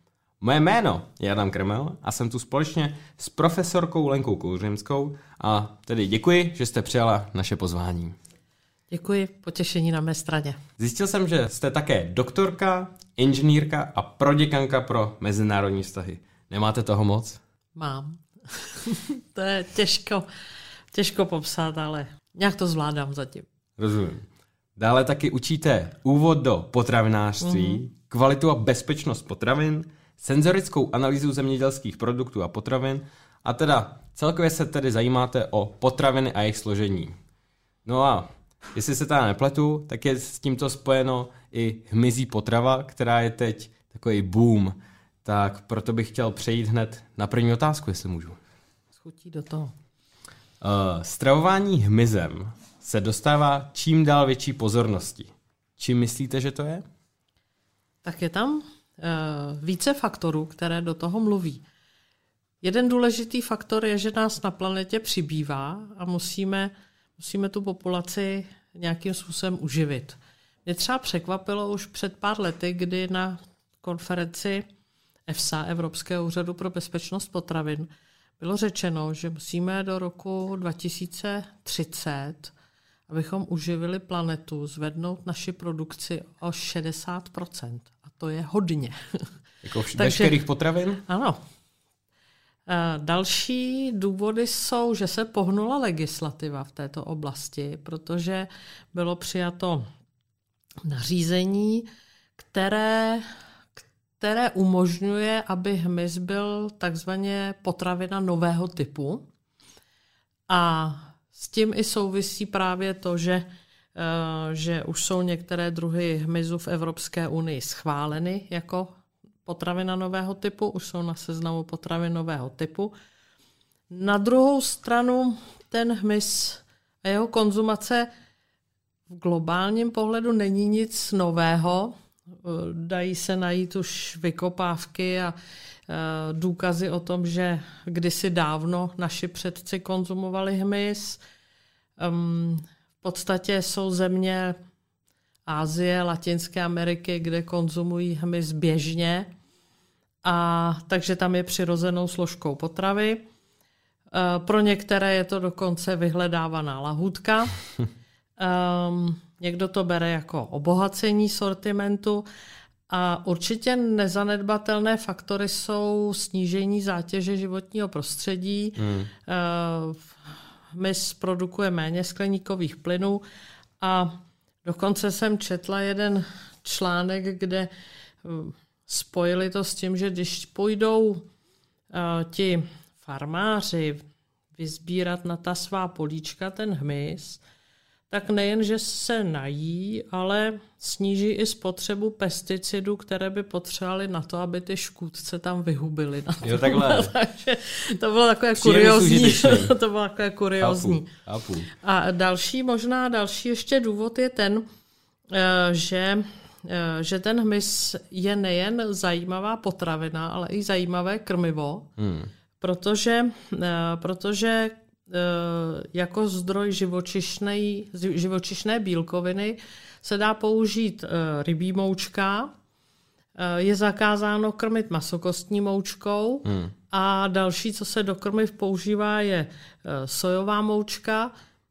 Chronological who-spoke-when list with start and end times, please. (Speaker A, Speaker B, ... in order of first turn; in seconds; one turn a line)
Speaker A: 0.4-8.2
Speaker B: 8.9-10.6
Speaker A: 10.8-17.4
Speaker B: 17.8-20.2
Speaker B: 20.9-23.4
Speaker A: 23.8-24.2
Speaker A: 24.8-37.2
Speaker B: 27.4-27.8
Speaker A: 37.8-48.4
Speaker B: 49.0-49.7
Speaker A: 50.6-56.8
Speaker B: 58.0-61.6
Speaker B: 62.6-74.6
Speaker B: 75.3-77.9
Speaker B: 78.4-82.5
Speaker B: 83.1-89.0
Speaker A: 89.6-91.0
Speaker B: 89.9-90.4
Speaker B: 91.0-91.4
Speaker B: 92.7-99.8
Speaker B: 100.8-101.8
Speaker B: 102.4-103.2
Speaker B: 103.8-109.2
Speaker B: 110.5-118.9
Speaker B: 119.4-122.9
Speaker B: 123.9-128.1
Speaker B: 129.1-135.3
Speaker B: 135.9-141.2
Speaker B: 142.0-144.6
Speaker B: 145.4-149.3
Speaker B: 150.2-153.2
Speaker B: 154.1-157.5
Speaker B: 158.4-162.2
Speaker B: 162.9-170.0
Speaker A: 168.8-169.1
Speaker B: 170.7-173.2
Speaker B: 173.8-174.1
Speaker B: 174.6-177.7
Speaker B: 178.2-181.2
Speaker B: 181.9-184.0
Speaker B: 184.6-187.4
Speaker B: 188.1-201.1
Speaker A: 196.4-197.1
Speaker A: 198.6-199.7
Speaker A: 200.6-201.7
Speaker B: 201.7-204.6
Speaker B: 205.3-211.9
Speaker A: 212.0-212.3
Speaker B: 212.6-222.5
Speaker B: 223.4-231.3
Speaker A: 226.4-226.7